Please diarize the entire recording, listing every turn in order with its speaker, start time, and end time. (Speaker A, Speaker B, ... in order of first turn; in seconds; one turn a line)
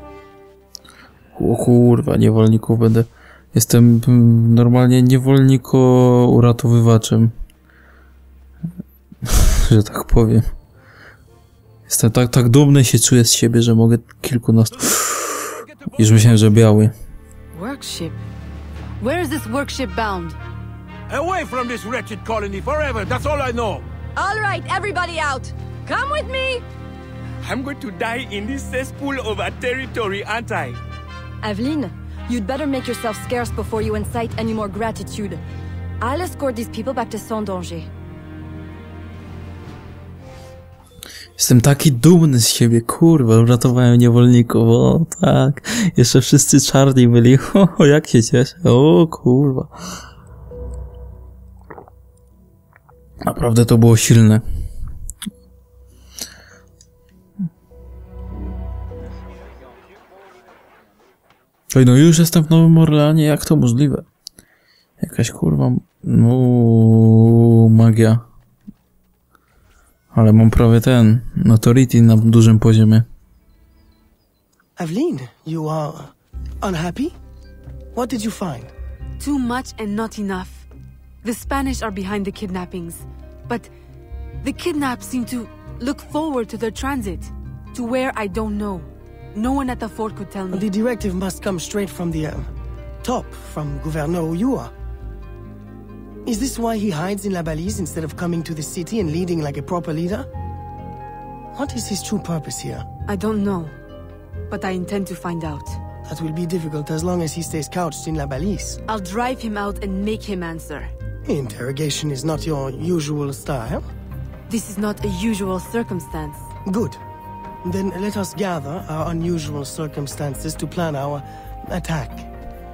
Speaker A: 1.3-7.3
Speaker A: 9.2-10.5
Speaker A: 11.9-16.9
Speaker B: 17.5-18.2
Speaker B: 19.0-20.4
Speaker C: 21.1-23.9
Speaker D: 24.2-26.6
Speaker C: 27.4-30.8
Speaker D: 31.4-35.4
Speaker D: 36.0-37.9
Speaker A: 41.4-49.7
Speaker A: 53.2-54.4
Speaker A: 61.7-64.1
Speaker A: 65.0-68.2
Speaker A: 70.1-73.1
Speaker E: 74.8-77.2
Speaker E: 77.9-78.7
Speaker B: 79.2-80.7
Speaker B: 81.2-83.7
Speaker B: 84.4-90.7
Speaker E: 90.5-92.5
Speaker E: 93.0-94.7
Speaker E: 96.2-100.3
Speaker E: 101.5-102.9
Speaker B: 103.1-103.8
Speaker B: 104.5-105.8
Speaker E: 106.1-108.8
Speaker B: 108.9-110.9
Speaker E: 111.3-113.9
Speaker B: 114.5-116.5
Speaker E: 116.7-117.0
Speaker E: 117.6-122.3